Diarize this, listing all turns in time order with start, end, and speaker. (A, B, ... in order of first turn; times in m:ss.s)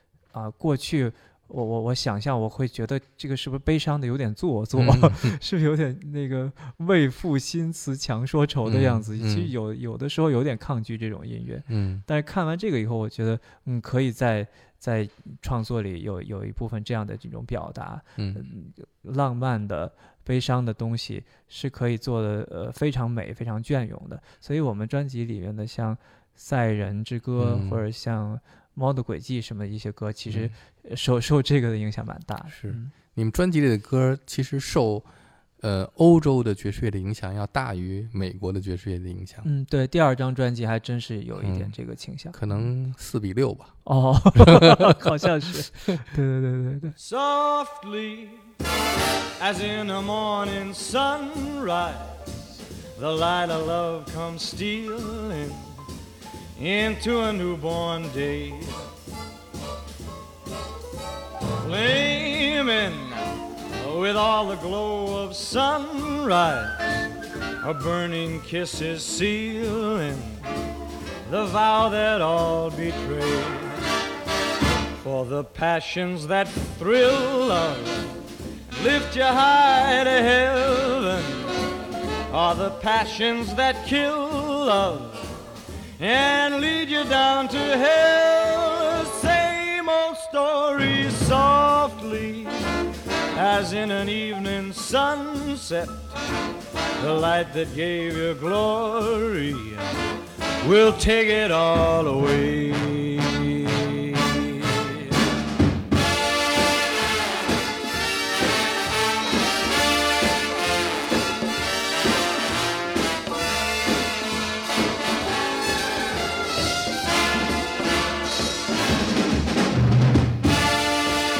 0:00.3-0:33.0 A
0:04.8-0:05.4 B
0:08.6-0:09.5 B
0:11.7-0:12.0 B
0:18.2-0:18.4 B
0:27.4-0:27.8 B
0:30.3-0:30.5 B
0:32.5-0:39.5 B
0:39.4-0:42.7 A
0:41.4-0:41.7 B
0:42.3-0:43.8 B
0:43.8-0:47.0 A
0:44.4-0:45.1 B
0:45.8-0:46.1 B
0:47.0-0:48.4 C
0:49.4-0:52.2 C
0:53.0-0:55.8 C
0:56.6-0:58.8 C
1:01.6-1:06.8 C
1:07.6-1:10.5 C
1:11.2-1:13.8 C
1:15.0-1:21.6 C
1:22.3-1:25.3 C
1:26.0-1:32.6 C
1:33.3-1:36.2 C
1:37.0-1:39.8 C
1:40.6-1:45.1 C